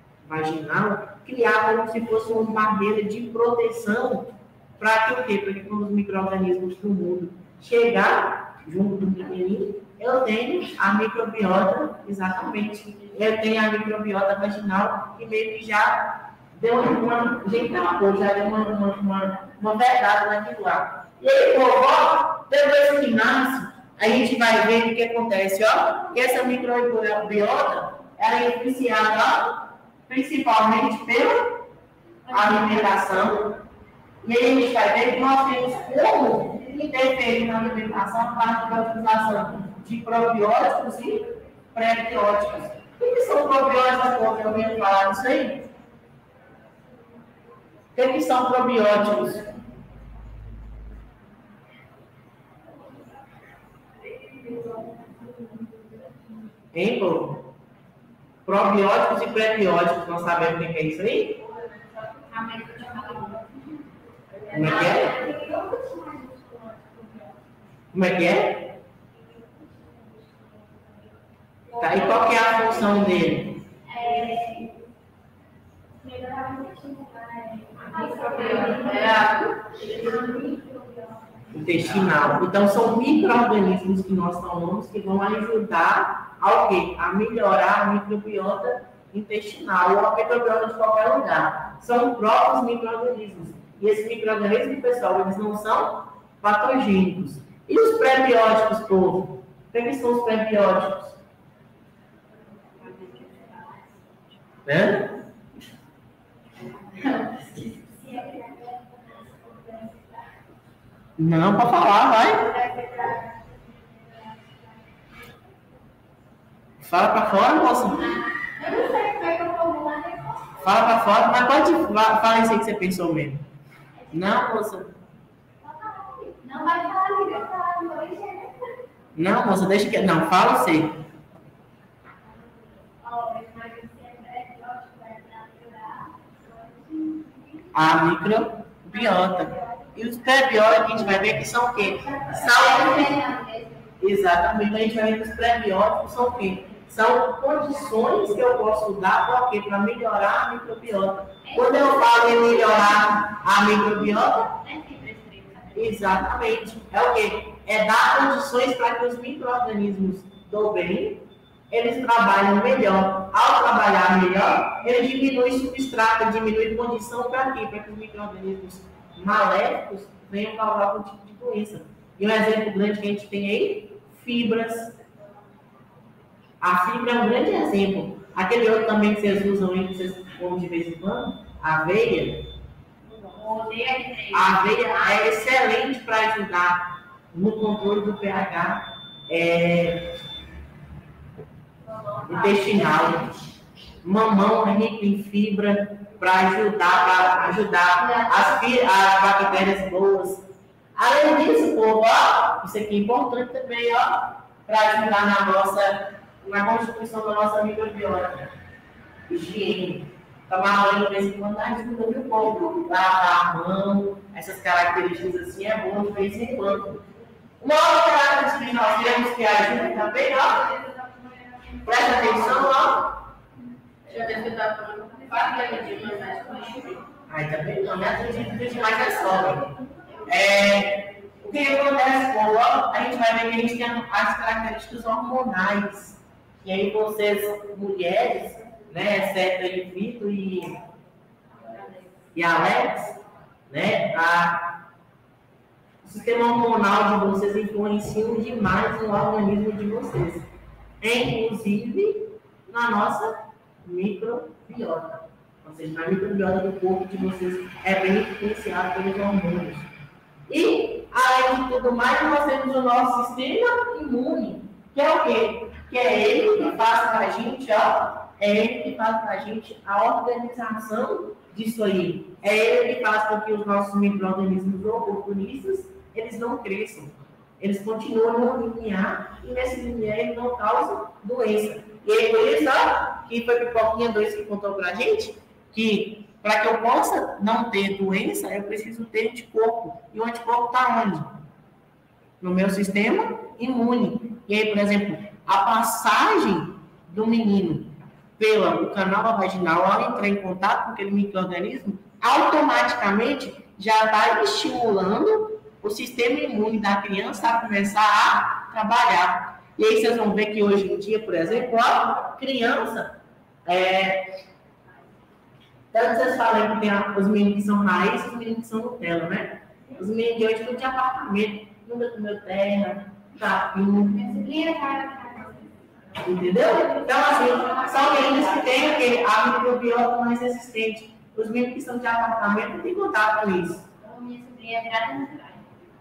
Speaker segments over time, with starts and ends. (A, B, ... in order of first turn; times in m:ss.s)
0:00.2-0:31.6 A
0:32.2-0:32.8 B
0:32.3-0:33.6 A
0:34.2-0:45.7 A
0:47.9-0:49.6 A
0:56.7-0:57.5 A
0:58.4-1:01.4 A
1:02.3-1:03.7 B
1:04.4-1:07.0 B
1:04.5-1:05.2 A
1:07.9-1:08.8 A
1:11.8-1:13.6 A
1:13.8-1:14.8 B
1:16.0-1:19.2 B
1:18.1-1:20.1 C
1:19.8-1:21.2 B
1:21.5-1:41.2 A
1:42.8-1:43.8 B
1:44.6-1:45.1 A
1:47.0-1:50.0 B
1:51.2-1:52.5 A
1:52.6-1:53.1 B
1:56.8-1:58.1 A
1:58.0-2:00.4 B
2:00.6-2:03.4 A
2:04.0-2:04.4 B
2:04.1-2:04.9 A
2:05.6-2:08.6 B
2:09.1-2:11.0 A
2:13.0-2:17.6 B
2:17.7-2:23.1 A
2:22.0-2:23.9 B
2:24.0-2:34.5 A
2:31.4-2:33.2 B
2:34.2-2:36.2 B
2:35.7-2:54.9 A
2:56.6-3:02.5 A
3:03.2-3:05.3 B
3:04.3-3:10.2 A
3:12.1-3:12.8 B
3:12.2-3:13.3 A
3:14.0-3:20.4 A
3:18.0-3:18.5 B
3:21.0-3:28.5 A
3:29.3-3:37.0 A
3:37.6-3:40.7 A
3:41.8-3:43.2 A
3:44.0-3:47.0 C
3:47.3-3:49.7 A
3:50.2-4:00.8 A
4:02.3-4:04.8 A
4:06.0-4:10.5 A
4:11.0-4:19.9 A
4:20.5-4:51.4 A
4:52.4-5:14.3 A
5:15.9-5:24.2 A
5:24.1-5:25.7 B
5:26.2-5:33.8 A
5:27.5-5:28.0 B
5:34.0-5:35.8 B